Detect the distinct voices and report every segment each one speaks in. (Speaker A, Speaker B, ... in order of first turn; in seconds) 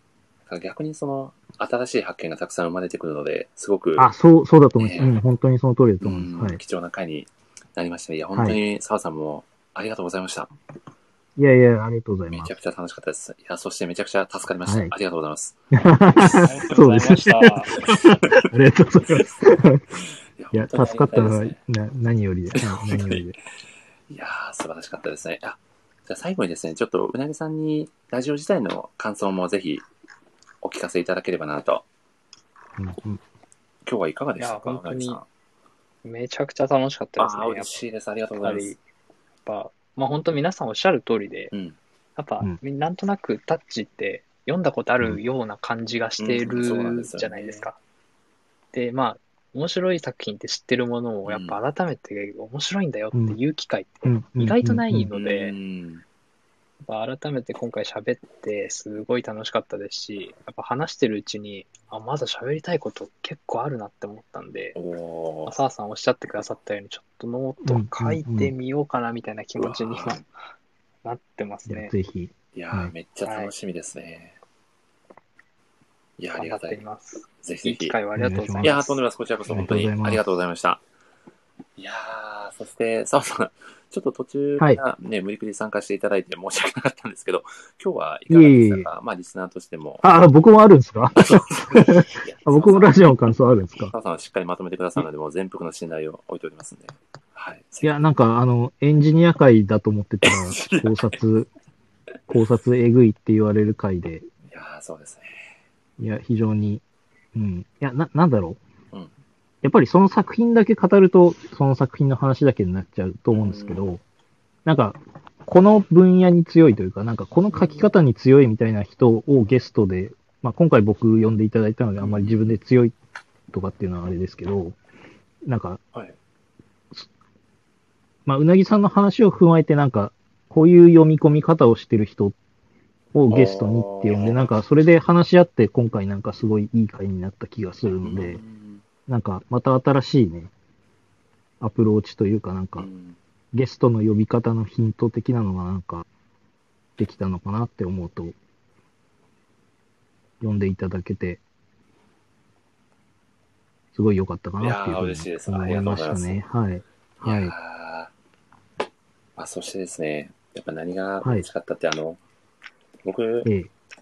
Speaker A: 0.5-4.1, 4.8-5.2, 6.0-10.5, 12.3-15.6, 16.1-16.5, 17.9-18.4, 19.1-19.3, 20.4-21.6, 22.6-23.3, 24.1-29.8, 30.6-31.9, 33.9-35.3, 37.2-38.8, 41.5-41.8, 46.2-47.7, 51.3-51.6, 55.1-56.0, 64.8-65.6, 69.6-70.2, 72.5-74.4, 76.2-76.8, 77.4-78.0, 78.6-80.8, 81.8-90.0, 91.2-93.2, 93.9-98.0, 100.2-101.2, 104.5-105.6, 113.3-113.9, 117.5-117.9, 122.0-122.6, 133.3-134.5, 138.0-138.8, 142.8-143.2, 154.6-156.4, 157.2-158.1, 159.4-162.2, 163.0-163.5
Speaker B: 4.0-6.6, 11.4-12.5, 14.7-14.9, 15.7-20.0, 20.5-23.4, 32.8-33.2, 53.1-53.4, 54.0-55.1, 67.6-68.5, 71.7-72.9, 78.2-78.8, 79.5-80.2, 88.3-88.9, 90.0-93.9, 97.8-101.5, 102.3-104.3, 106.0-106.8, 107.3-108.6, 109.6-114.0, 114.7-122.9, 123.5-124.8, 125.5-125.8, 128.3-132.4, 133.1-138.4, 139.1-140.5, 141.6-142.9, 143.5-146.1, 147.0-148.3, 150.4-151.4, 153.9-157.6, 163.4-163.7
Speaker C: 16.4-17.8, 34.4-35.2, 36.0-37.8, 38.4-38.8, 39.5-41.5, 42.2-47.8, 48.7-55.5, 56.8-64.8, 65.5-70.3, 71.0-71.9, 73.2-73.5, 76.4-79.0